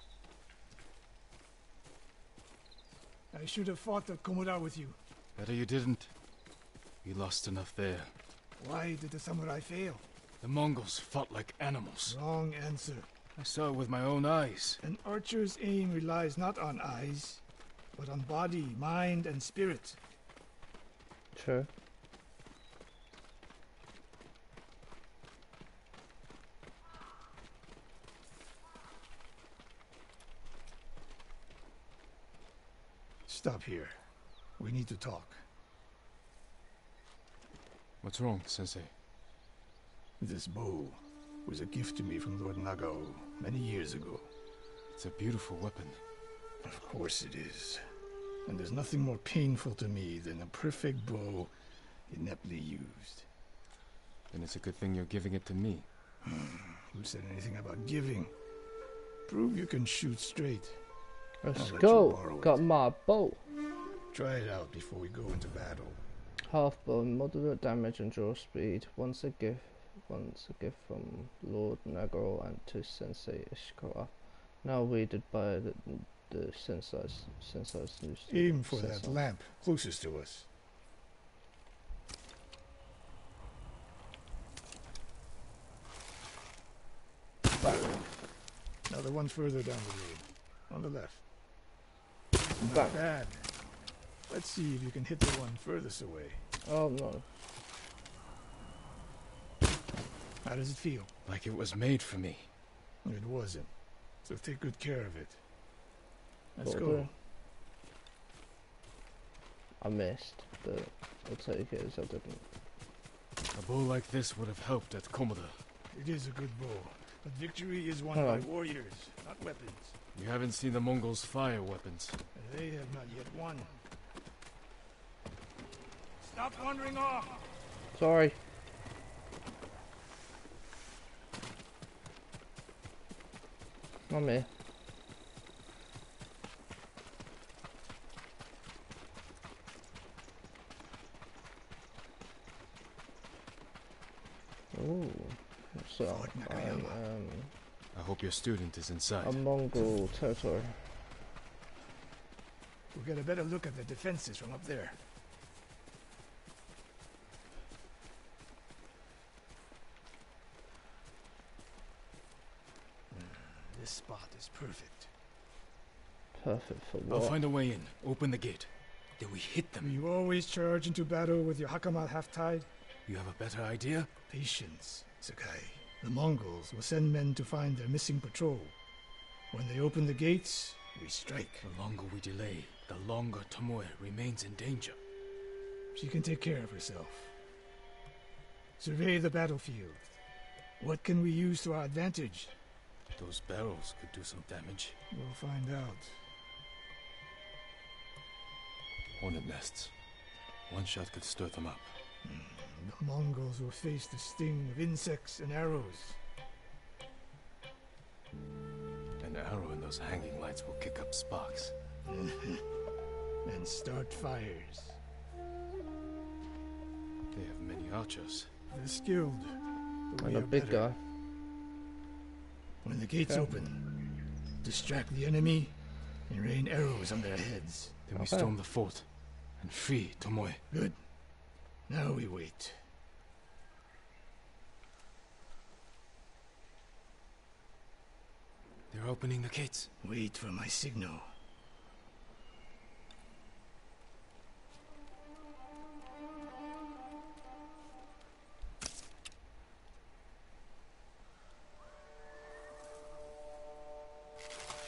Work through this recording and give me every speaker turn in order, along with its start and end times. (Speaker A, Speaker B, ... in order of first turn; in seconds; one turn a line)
Speaker A: 3.3-5.0
Speaker B: 5.4-6.1
Speaker B: 7.0-8.1
Speaker A: 8.6-10.0
Speaker B: 10.4-12.2
Speaker A: 12.1-13.1
Speaker B: 13.4-14.8
Speaker A: 14.8-17.4
Speaker A: 18.0-20.0
Speaker C: 21.4-21.7
Speaker A: 33.3-34.0
Speaker A: 34.6-35.4
Speaker B: 38.0-38.9
Speaker A: 40.2-44.3
Speaker B: 44.9-46.0
Speaker A: 46.6-47.9
Speaker A: 48.5-51.5
Speaker A: 52.1-53.3
Speaker B: 54.3-55.9
Speaker A: 56.2-58.3
Speaker A: 59.3-60.8
Speaker C: 61.4-63.4
Speaker A: 61.5-62.6
Speaker A: 64.1-66.0
Speaker C: 66.5-79.2
Speaker A: 78.3-80.5
Speaker A: 88.9-91.2
Speaker A: 92.6-93.5
Speaker C: 92.7-93.0
Speaker A: 94.3-96.4
Speaker C: 96.7-97.2
Speaker A: 100.4-101.1
Speaker B: 101.3-102.5
Speaker A: 103.0-103.7
Speaker A: 104.2-105.4
Speaker A: 106.6-107.1
Speaker C: 106.6-107.1
Speaker C: 109.8-112.5
Speaker B: 113.5-115.6
Speaker A: 115.9-120.0
Speaker C: 118.2-118.5
Speaker B: 120.1-122.2
Speaker A: 122.3-123.8
Speaker A: 126.2-127.4
Speaker C: 128.0-128.4
Speaker C: 134.1-134.5
Speaker C: 144.7-147.5
Speaker A: 146.1-147.0
Speaker B: 147.9-149.4
Speaker C: 149.2-150.8
Speaker A: 152.9-155.0
Speaker A: 163.1-165.1
Speaker C: 166.3-167.4
Speaker B: 167.1-169.9
Speaker A: 169.8-172.7
Speaker B: 173.1-174.1
Speaker A: 174.3-178.8
Speaker A: 179.5-181.7
Speaker B: 181.6-185.0
Speaker A: 185.9-187.3
Speaker A: 188.8-190.1
Speaker A: 190.8-192.5
Speaker B: 193.2-195.0
Speaker A: 195.1-196.2
Speaker B: 199.2-199.9
Speaker B: 200.7-201.9
Speaker A: 202.2-206.2
Speaker B: 209.2-211.7
Speaker A: 212.1-212.7
Speaker A: 213.4-215.0
Speaker B: 217.3-218.5
Speaker A: 218.7-220.9
Speaker C: 220.2-221.0
Speaker A: 222.8-223.9
Speaker A: 224.6-228.0
Speaker B: 228.1-229.1
Speaker C: 228.1-228.5
Speaker B: 229.6-230.6
Speaker A: 230.7-231.0
Speaker A: 231.9-232.8
Speaker B: 238.9-239.9
Speaker A: 240.0-241.3